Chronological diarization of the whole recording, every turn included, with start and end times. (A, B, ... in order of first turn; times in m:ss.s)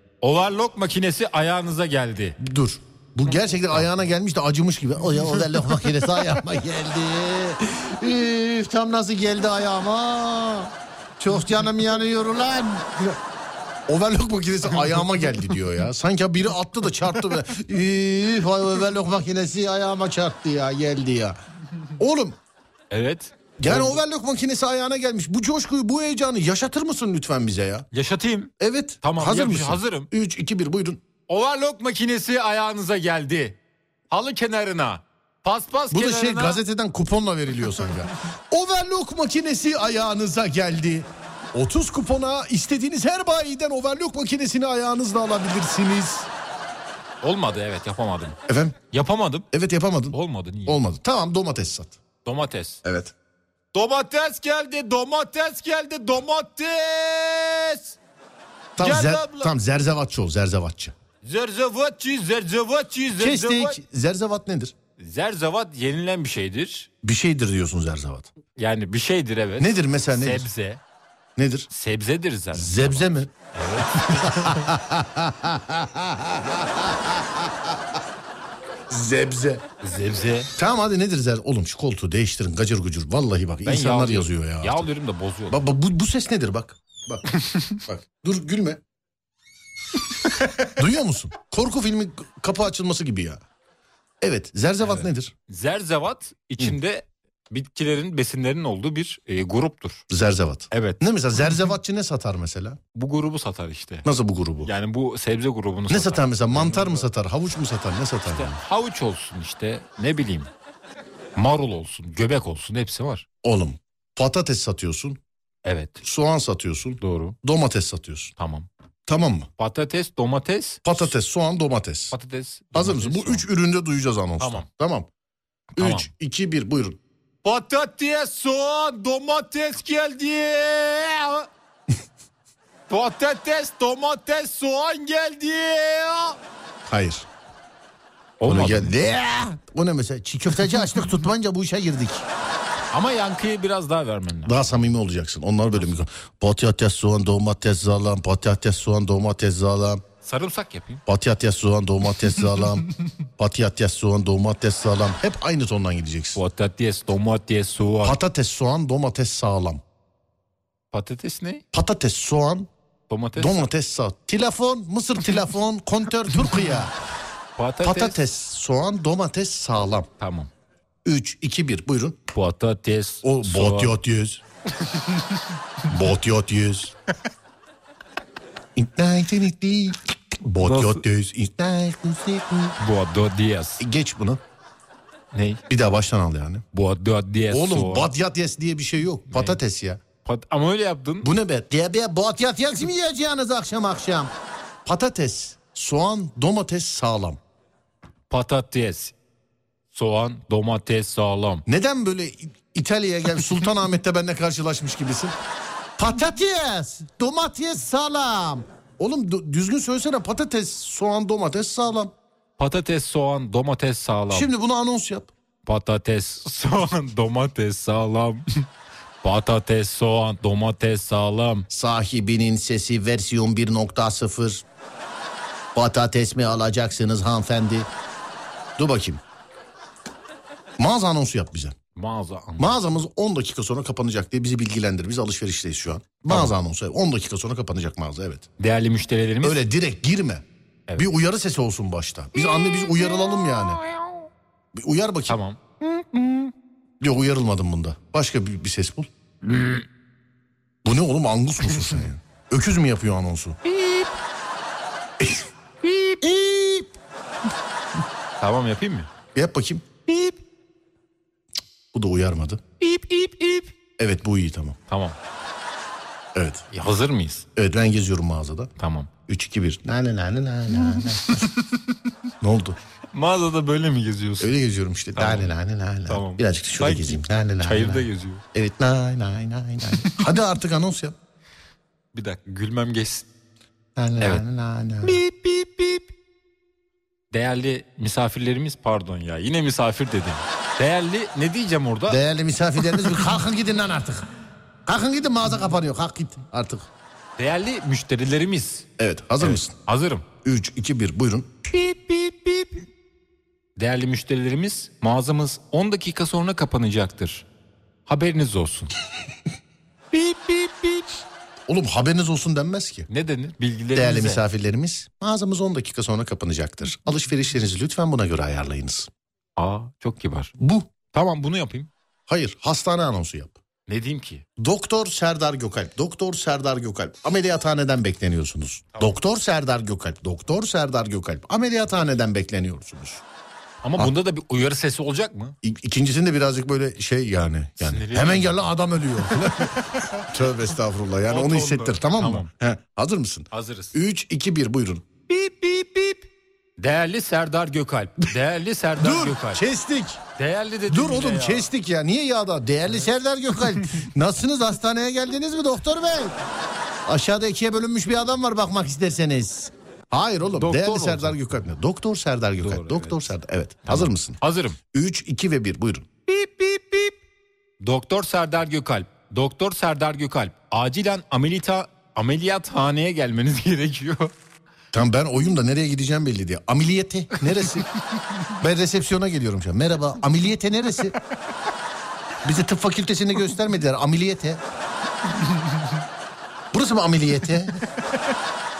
0:00.2-0:02.4 A
0:02.4-0:13.2 B
0:13.9-0:21.4 B
0:22.0-0:22.4 B
0:22.9-0:24.0 A
0:23.6-0:27.9 B
0:27.9-0:30.1 A
0:28.6-0:31.0 B
0:31.3-0:33.6 A
0:34.1-0:36.6 A
0:35.9-0:46.3 B
0:47.2-0:48.4 A
0:48.5-0:48.8 B
0:48.9-0:49.5 A
0:49.5-0:52.0 B
0:50.1-0:50.8 A
0:52.2-0:52.8 A
0:52.8-0:53.1 B
0:53.7-0:58.0 A
0:58.8-1:00.9 B
0:58.8-0:59.5 A
1:01.2-1:03.8 A
1:03.2-1:04.7 B
1:05.0-1:06.9 A
1:07.0-1:08.3 B
1:08.6-1:10.8 A
1:09.6-1:10.5 B
1:11.4-1:11.7 B
1:11.7-1:14.7 A
1:12.5-1:13.3 B
1:14.1-1:17.8 B
1:18.9-1:19.6 B
1:19.8-1:20.5 A
1:20.6-1:24.9 B
1:23.6-1:25.6 A
1:25.5-1:28.8 B
1:27.4-1:27.8 A
1:30.2-1:30.7 A
1:30.8-1:33.4 B
1:34.2-1:35.3 B
1:34.8-1:40.0 A
1:40.1-1:42.8 B
1:40.7-1:41.0 A
1:42.9-1:44.1 A
1:44.0-1:44.7 B
1:44.6-1:47.1 A
1:45.9-1:48.6 B
1:48.3-1:50.5 A
1:51.4-1:53.2 A
1:53.4-1:55.2 B
1:55.6-1:56.0 A
1:56.0-1:58.3 B
1:57.0-1:57.4 A
1:58.4-1:58.7 A
1:59.1-1:59.5 B
1:59.6-2:01.1 A
2:00.8-2:02.1 B
2:02.1-2:03.4 A
2:02.7-2:05.1 B
2:04.4-2:04.7 A
2:05.8-2:07.0 B
2:05.8-2:06.1 A
2:07.4-2:11.5 A
2:12.9-2:16.4 A
2:16.8-2:17.3 B
2:18.4-2:18.9 A
2:18.4-2:22.3 B
2:22.9-2:24.7 A
2:24.4-2:30.0 B
2:30.2-2:31.0 A
2:31.1-2:32.8 B
2:33.4-2:36.4 B
2:36.3-2:38.2 A
2:38.0-2:39.8 B
2:40.9-2:41.6 A
2:41.7-2:42.7 B
2:43.1-2:43.6 A
2:43.4-2:46.9 B
2:47.6-2:48.2 A
2:47.8-2:50.1 B
2:50.2-2:50.5 A
2:51.0-2:52.2 B
2:52.3-2:53.9 A
2:53.2-2:54.4 B
2:55.9-2:56.9 B
2:58.8-3:02.8 B
3:00.6-3:01.0 A
3:02.8-3:03.8 A
3:03.8-3:04.4 B
3:05.3-3:05.6 A
3:05.7-3:06.6 B
3:06.7-3:08.1 A
3:07.5-3:10.0 B
3:09.3-3:09.6 A
3:10.2-3:11.3 A
3:11.2-3:14.3 B
3:14.8-3:17.4 B
3:18.3-3:19.1 A
3:19.9-3:21.6 A
3:21.7-3:25.4 B
3:26.0-3:32.1 B
3:32.6-3:34.5 A
3:34.3-3:35.3 B
3:35.6-3:38.6 A
3:39.2-3:41.6 A
3:41.7-3:44.6 B
3:45.7-3:47.9 B
3:48.8-3:49.2 B
3:50.8-3:51.8 B
3:51.9-3:52.8 A
3:52.6-3:58.5 B
3:56.3-3:56.5 A
3:58.6-3:59.6 A
3:59.4-4:03.8 B
4:02.4-4:04.3 A
4:04.7-4:05.4 B
4:05.3-4:06.5 A
4:07.0-4:09.1 B
4:09.4-4:09.8 A
4:10.8-4:13.6 B
4:13.6-4:14.1 A
4:15.2-4:15.5 B
4:15.8-4:16.2 A
4:16.2-4:16.9 B
4:18.4-4:19.1 A
4:19.3-4:19.9 B
4:20.1-4:20.4 A
4:21.9-4:22.6 B
4:22.8-4:23.7 A
4:24.0-4:24.8 B
4:24.9-4:25.2 A
4:26.3-4:26.6 B
4:26.7-4:27.4 A
4:27.6-4:28.7 B
4:28.8-4:29.1 A
4:29.3-4:31.5 B
4:30.8-4:31.8 A
4:32.4-4:32.8 B
4:33.1-4:34.5 A
4:34.4-4:41.2 B
4:35.2-4:35.5 A
4:36.1-4:38.4 A
4:39.9-4:40.1 A
4:42.1-4:43.2 A
4:44.0-4:45.2 B
4:45.0-4:46.1 A
4:47.3-4:52.2 A
4:52.1-4:54.3 B
4:54.8-4:56.9 B
4:57.4-4:58.9 A
4:59.0-4:59.7 B
4:59.4-5:00.2 A
5:00.4-5:01.5 B
5:01.6-5:02.8 A
5:03.8-5:07.4 A
5:08.1-5:08.9 A
5:10.1-5:11.1 A
5:11.7-5:13.1 B
5:13.1-5:14.4 A
5:13.9-5:19.1 B
5:19.6-5:20.5 A
5:20.6-5:20.9 B
5:21.1-5:21.9 A
5:22.3-5:23.6 B
5:23.9-5:24.4 A
5:24.6-5:33.2 B
5:33.8-5:35.6 A
5:35.6-5:45.0 B
5:37.8-5:38.6 A
5:39.6-5:40.1 A
5:41.3-5:42.5 A
5:43.5-5:44.0 A
5:45.3-5:46.3 A
5:46.8-5:49.6 A
5:49.0-5:50.2 B
5:50.4-5:51.7 A
5:50.9-5:56.3 B
5:57.0-6:04.4 B
6:00.6-6:01.4 A
6:02.6-6:03.2 A
6:03.8-6:04.8 A
6:04.9-6:06.1 B
6:06.3-6:07.2 A
6:07.8-6:14.3 A
6:14.9-6:17.9 B
6:18.6-6:21.1 B
6:22.4-6:24.6 B
6:26.7-6:27.8 B